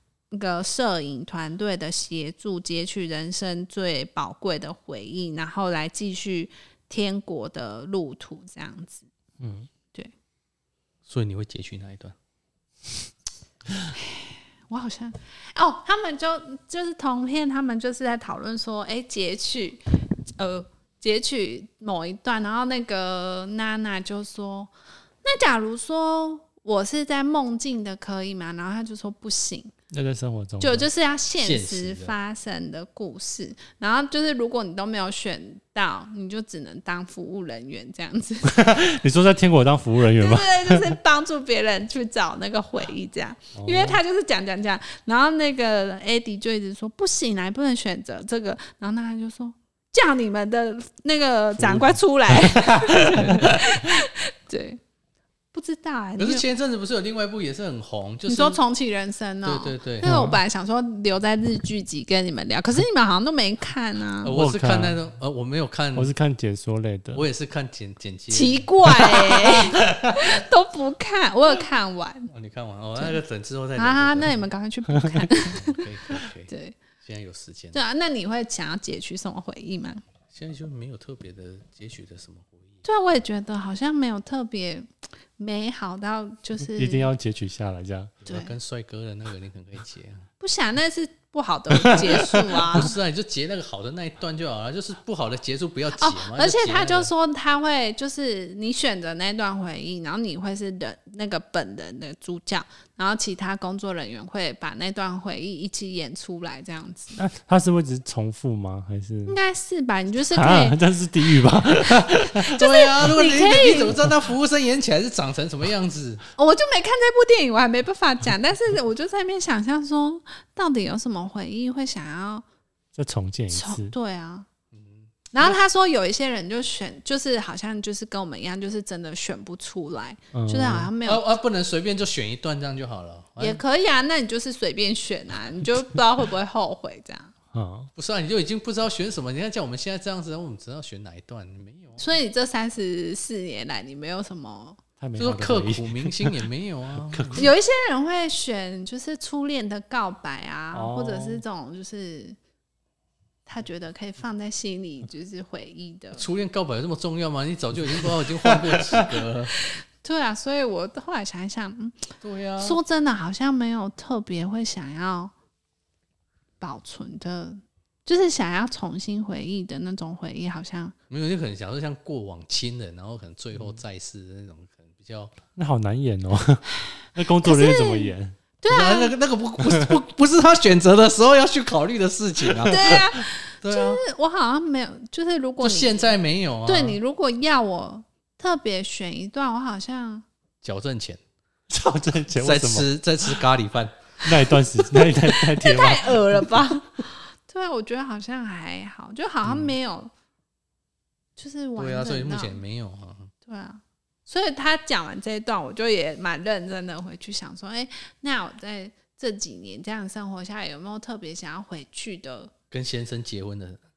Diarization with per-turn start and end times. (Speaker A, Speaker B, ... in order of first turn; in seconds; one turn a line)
Speaker A: 0.3-9.1
Speaker B: 9.4-9.7
Speaker C: 11.1-12.2
Speaker A: 13.9-24.7
Speaker A: 25.2-29.7
Speaker B: 29.9-30.9
Speaker A: 30.6-38.7
Speaker C: 31.4-32.1
Speaker B: 38.5-41.0
Speaker A: 40.1-54.8
Speaker B: 43.6-44.0
Speaker B: 51.6-53.9
Speaker C: 53.2-53.5
Speaker A: 55.5-56.4
Speaker C: 56.2-58.6
Speaker A: 58.3-64.3
Speaker C: 59.5-60.1
Speaker B: 60.0-60.4
Speaker C: 64.2-66.1
Speaker B: 64.3-65.0
Speaker B: 66.0-67.2
Speaker C: 67.1-69.0
Speaker A: 68.3-72.3
Speaker B: 69.9-70.2
Speaker C: 72.3-74.4
Speaker A: 73.8-76.8
Speaker B: 75.0-75.3
Speaker C: 75.4-77.8
Speaker A: 77.7-80.0
Speaker C: 80.3-82.8
Speaker A: 82.8-87.1
Speaker B: 86.8-88.2
Speaker C: 88.2-90.3
Speaker A: 88.3-88.5
Speaker A: 90.4-92.9
Speaker B: 91.7-92.8
Speaker C: 92.6-97.1
Speaker A: 96.0-107.2
Speaker B: 107.2-109.4
Speaker A: 109.3-110.8
Speaker B: 110.3-112.6
Speaker A: 112.4-114.0
Speaker C: 112.5-116.2
Speaker A: 116.4-122.5
Speaker B: 123.0-123.9
Speaker A: 123.5-124.5
Speaker C: 124.7-125.5
Speaker A: 125.3-131.2
Speaker B: 130.3-130.9
Speaker C: 131.0-133.6
Speaker A: 133.4-137.3
Speaker B: 137.5-137.9
Speaker C: 138.0-142.1
Speaker A: 142.0-144.8
Speaker B: 145.0-146.4
Speaker C: 145.2-147.5
Speaker B: 147.1-147.5
Speaker A: 147.3-152.4
Speaker B: 150.7-151.4
Speaker A: 153.5-156.2
Speaker C: 156.2-159.5
Speaker B: 158.7-159.1
Speaker A: 159.7-165.3
Speaker C: 162.2-162.8
Speaker A: 166.6-170.9
Speaker C: 171.1-175.3
Speaker B: 175.6-178.4
Speaker A: 177.4-179.1
Speaker C: 178.7-183.0
Speaker B: 179.6-180.0
Speaker A: 182.7-186.1
Speaker C: 183.6-184.0
Speaker C: 185.6-187.0
Speaker A: 186.7-190.2
Speaker C: 190.6-191.2
Speaker B: 191.7-192.9
Speaker C: 192.4-194.0
Speaker B: 194.2-196.5
Speaker A: 195.1-200.1
Speaker A: 201.4-202.6
Speaker C: 201.8-203.3
Speaker A: 203.4-212.5
Speaker C: 212.7-213.8